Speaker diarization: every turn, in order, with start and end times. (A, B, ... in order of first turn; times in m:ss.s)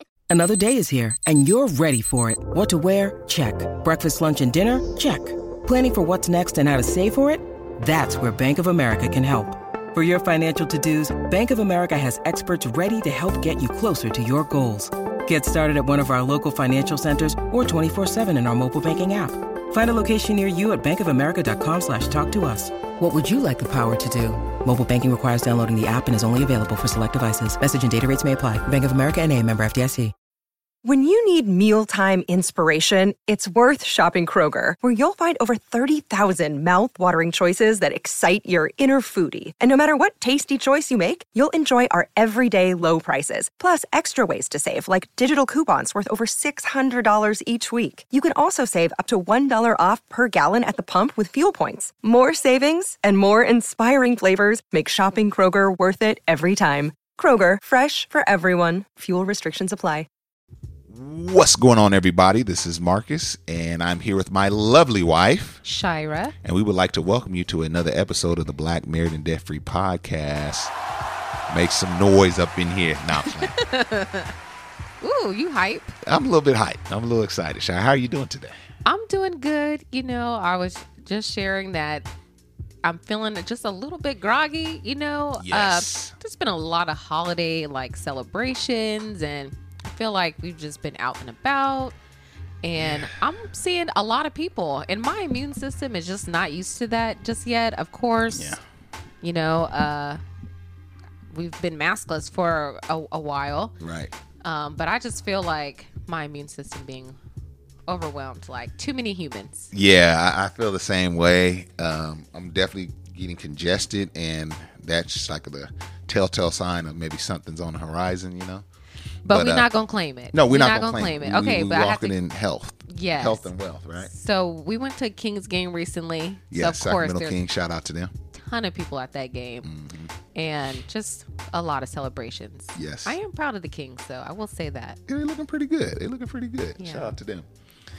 0:00.3-0:30.1 A
0:30.8-1:00.1 B
1:00.9-1:05.6 C
1:05.6-1:06.4 D
1:06.4-1:10.7 C
1:11.5-1:13.6 C
1:13.4-1:14.3 D
1:15.0-1:16.0 D
1:16.0-1:18.6 C
1:18.8-1:22.1 D
1:22.8-1:31.9 D
1:25.4-1:26.1 C
1:32.6-1:38.6 D
1:32.8-1:33.1 C
1:38.3-1:38.6 C
1:39.2-1:40.2 D
1:41.3-1:43.7 D
1:43.8-1:44.1 C
1:44.4-1:47.2 D
1:47.9-1:49.7 D
1:49.7-1:58.6 C
1:59.2-1:59.7 C
1:59.2-2:02.1 D
2:00.3-2:04.1 C
2:02.9-2:07.4 D
2:06.5-2:08.1 C
2:08.3-2:09.7 D
2:09.6-2:10.1 C
2:10.3-2:15.0 D
2:12.8-2:13.2 C
2:15.1-2:17.5 C
2:16.8-2:17.1 D